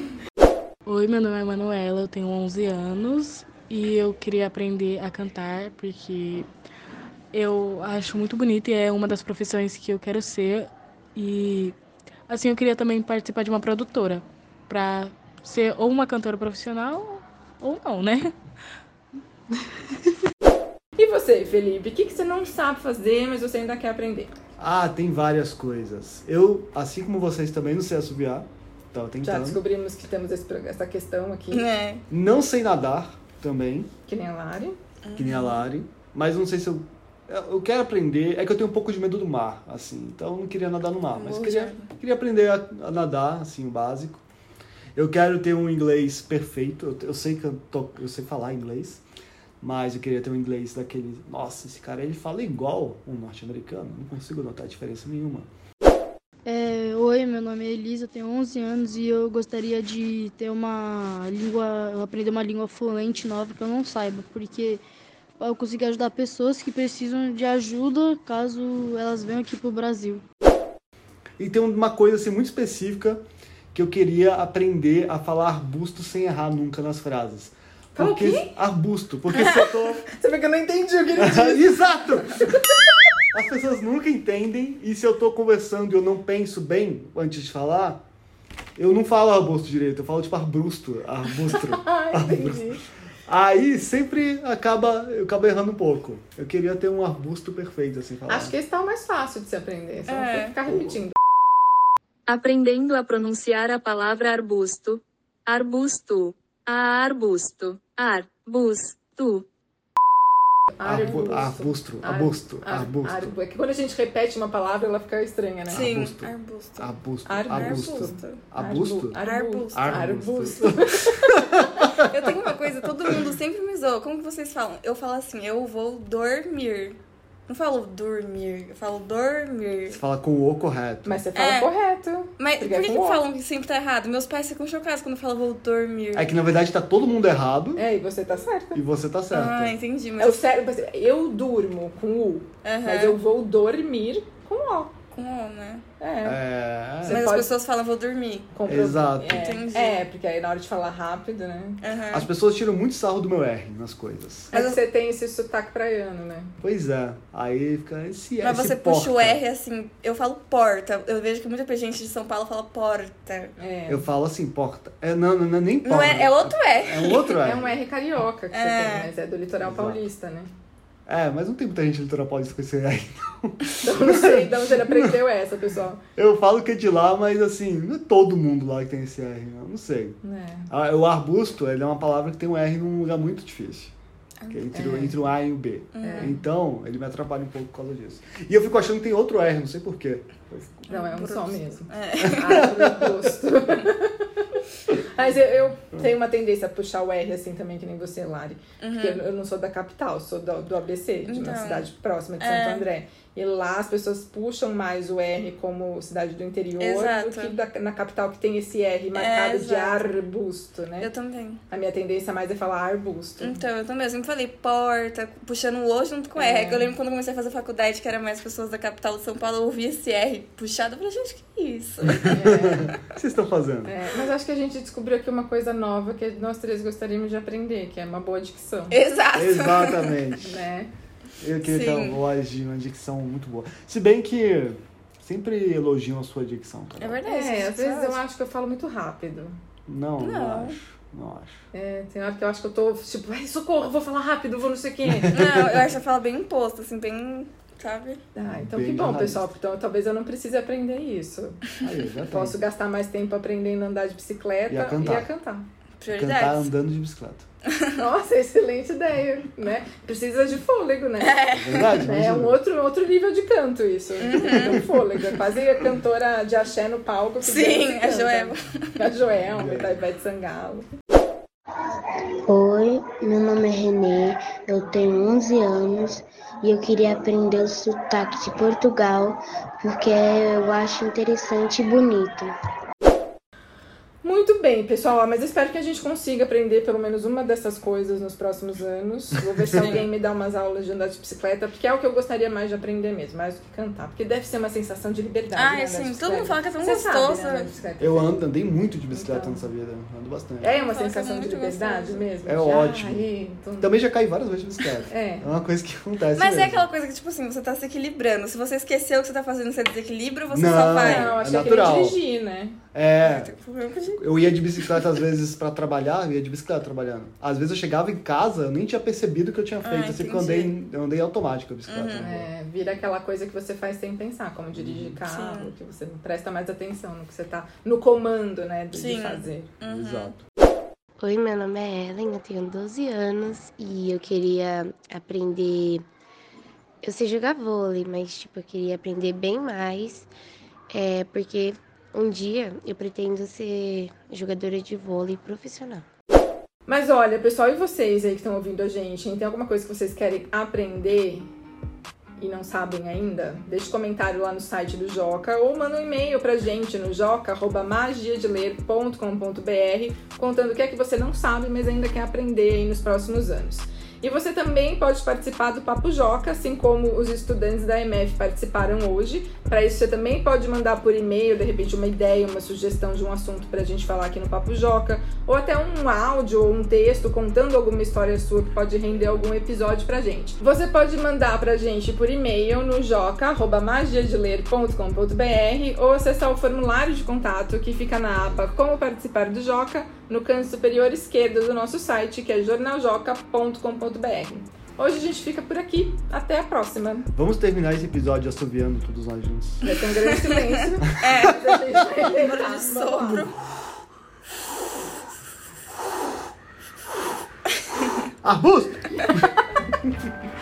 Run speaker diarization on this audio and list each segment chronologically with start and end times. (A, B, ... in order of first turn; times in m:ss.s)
0:00.8-0:06.5 A
0:07.3-0:11.7 A
0:12.3-0:18.3 A
0:21.0-0:24.3 B
0:24.6-0:29.6 C
0:29.2-0:31.6 B
0:31.5-0:32.0 D
0:32.1-0:33.9 C
0:34.1-0:34.8 B
0:35.0-0:35.7 D
0:35.2-0:44.2 C
0:41.1-0:41.9 D
0:44.9-0:49.0 C
0:49.6-0:55.5 C
0:56.4-1:04.8 E
1:05.4-1:10.2 E
1:11.4-1:13.2 C
1:13.7-1:20.1 C
1:17.9-1:18.5 B
1:20.2-1:22.8 B
1:21.2-1:22.4 C
1:23.3-1:28.0 C
1:28.8-1:38.5 C
1:31.5-1:32.8 B
1:38.3-1:41.1 B
1:40.1-1:40.5 D
1:40.7-1:41.0 C
1:42.3-1:49.4 F
1:50.8-1:55.8 B
1:50.8-1:53.3 C
1:55.7-1:59.2 C
1:55.7-1:56.9 D
1:57.3-2:01.6 B
1:57.5-1:58.4 D
1:59.1-2:00.0 D
1:59.7-2:02.3 C
2:01.7-2:10.0 D
2:09.9-2:11.2 C
2:11.0-2:13.2 B
2:11.3-2:11.7 D
2:12.4-2:16.3 D
2:16.1-2:17.8 C
2:17.8-2:18.8 B
2:18.7-2:19.7 C
2:19.3-2:20.4 D
2:20.2-2:24.9 B
2:22.6-2:23.2 D
2:25.1-2:25.8 D
2:26.0-2:26.4 B
2:26.2-2:27.2 C
2:27.0-2:27.5 B
2:27.0-2:28.5 D
2:28.5-2:31.8 B
2:28.6-2:29.6 C
2:29.4-2:30.0 D
2:31.8-2:32.3 D
2:32.1-2:34.5 C
2:34.5-2:36.5 B
2:34.5-2:34.8 D
2:36.6-2:39.4 C
2:38.4-2:43.5 D
2:43.6-2:44.1 B
2:43.9-2:47.8 C
2:45.8-2:47.4 D
2:47.4-2:50.5 B
2:48.5-2:49.1 D
2:49.6-2:50.0 C
2:51.1-2:55.2 C
2:53.8-2:56.0 B
2:56.2-3:00.2 C
3:00.2-3:00.7 B
3:00.7-3:03.9 C
3:04.4-3:04.7 D
3:04.5-3:10.9 C
3:04.7-3:05.2 B
3:05.9-3:06.4 D
3:06.0-3:06.4 B
3:10.9-3:12.6 D
3:10.9-3:14.2 B
3:12.2-3:13.3 C
3:14.9-3:31.1 B
3:18.8-3:19.2 D
3:21.2-3:22.8 D
3:26.8-3:27.6 D
3:29.1-3:30.0 D
3:31.0-3:31.6 D
3:31.7-3:33.6 B
3:33.4-3:43.0 D
3:36.4-3:37.0 B
3:42.2-3:43.9 C
3:42.3-3:42.9 B
3:43.8-3:49.0 B
3:48.9-3:50.2 D
3:49.3-3:50.6 C
3:50.4-3:50.9 B
3:51.4-3:57.2 C
3:51.6-3:52.2 D
3:57.0-3:58.2 D
3:57.2-3:59.6 B
3:59.9-4:01.6 C
4:00.2-4:00.8 D
4:01.7-4:05.4 B
4:05.1-4:05.7 C
4:05.3-4:08.2 D
4:08.3-4:11.7 B
4:08.4-4:09.4 C
4:11.8-4:12.6 C
4:12.3-4:15.6 B
4:14.7-4:15.3 C
4:16.0-4:16.7 D
4:16.1-4:17.4 C
4:18.0-4:21.4 B
4:21.2-4:21.9 D
4:21.5-4:22.6 C
4:22.0-4:30.8 B
4:24.2-4:24.8 D
4:24.4-4:25.0 C
4:27.4-4:29.0 D
4:29.5-4:30.0 C
4:32.5-4:42.5 G
4:44.2-4:58.4 B
4:49.8-4:50.1 D
4:55.5-4:57.7 D
4:58.0-5:00.7 C
4:59.1-4:59.7 B
5:00.6-5:04.0 B
5:00.7-5:02.2 D
5:02.4-5:03.3 C
5:03.8-5:06.9 C
5:05.1-5:05.5 B
5:06.4-5:11.3 D
5:10.5-5:12.2 C
5:11.0-5:12.8 B
5:12.9-5:13.5 C
5:13.2-5:15.1 D
5:14.1-5:22.5 C
5:19.8-5:20.8 D
5:21.8-5:22.2 D
5:22.2-5:29.7 B
5:24.7-5:25.2 C
5:25.3-5:25.7 D
5:28.9-5:30.4 D
5:29.8-5:30.4 C
5:31.2-5:36.0 G
5:37.0-5:40.3 G
5:40.9-5:46.0 G
5:46.9-5:51.5 B
5:52.4-6:37.3 B
6:37.3-6:39.8 C
6:39.8-6:43.5 B
6:41.2-6:41.6 D
6:41.2-6:41.5 C
6:42.3-6:43.6 D
6:48.4-6:50.3 C